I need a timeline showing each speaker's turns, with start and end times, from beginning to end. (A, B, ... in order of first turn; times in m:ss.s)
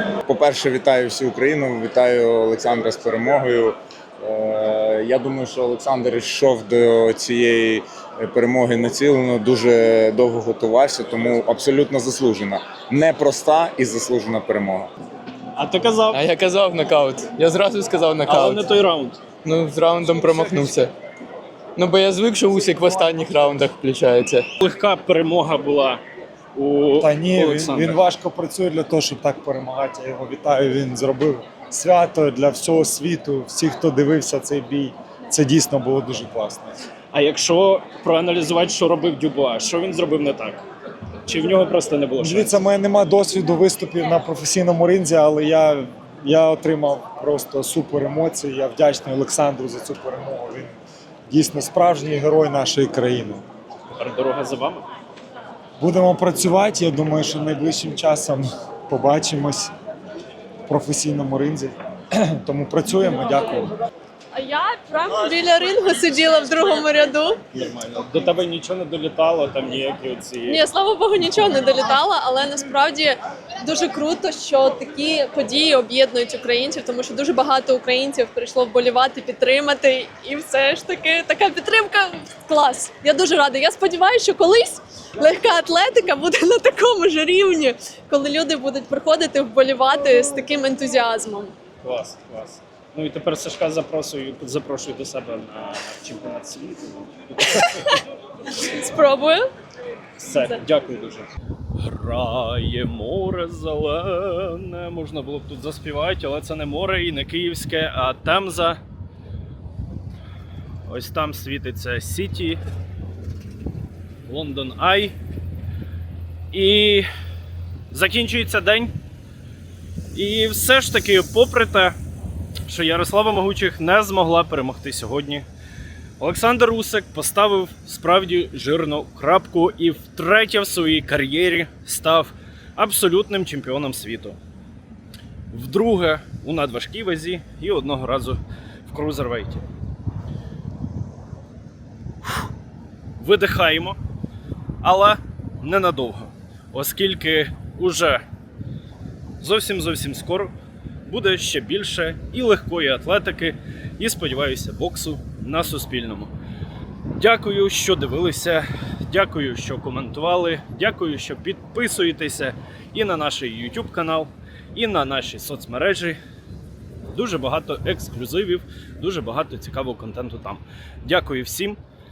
0:00.2-0:14.9 A
0:15.6-0:16.2 B
0:16.1-0:18.6 C
0:18.2-0:19.2 B
0:19.4-0:20.9 C
0:21.8-0:24.4 C
0:24.6-0:26.0 B
0:26.6-0:28.0 B
0:27.0-0:36.8 D
0:37.1-0:40.6 B
0:41.3-0:42.6 B
0:42.2-0:50.8 D
0:51.3-0:53.4 D
0:54.0-0:54.9 B
0:55.8-0:59.7 D
1:00.7-1:03.7 D
1:04.3-1:07.4 E
1:07.5-1:10.6 B
1:10.5-1:31.5 E
1:31.8-1:37.7 B
1:38.6-1:39.5 E
1:40.2-1:41.3 B
1:41.8-1:48.8 B
1:50.9-1:52.6 B
1:54.3-1:55.2 B
1:56.5-1:57.1 B
1:57.9-1:58.9 B
2:00.1-2:02.0 B
2:02.7-2:05.4 B
2:06.2-2:14.4 B
2:15.5-2:19.6 B
2:23.2-2:24.0 B
2:24.8-2:28.2 B
2:29.4-2:30.5 B
2:31.0-2:36.3 B
2:37.2-2:46.2 B
2:47.1-2:51.8 B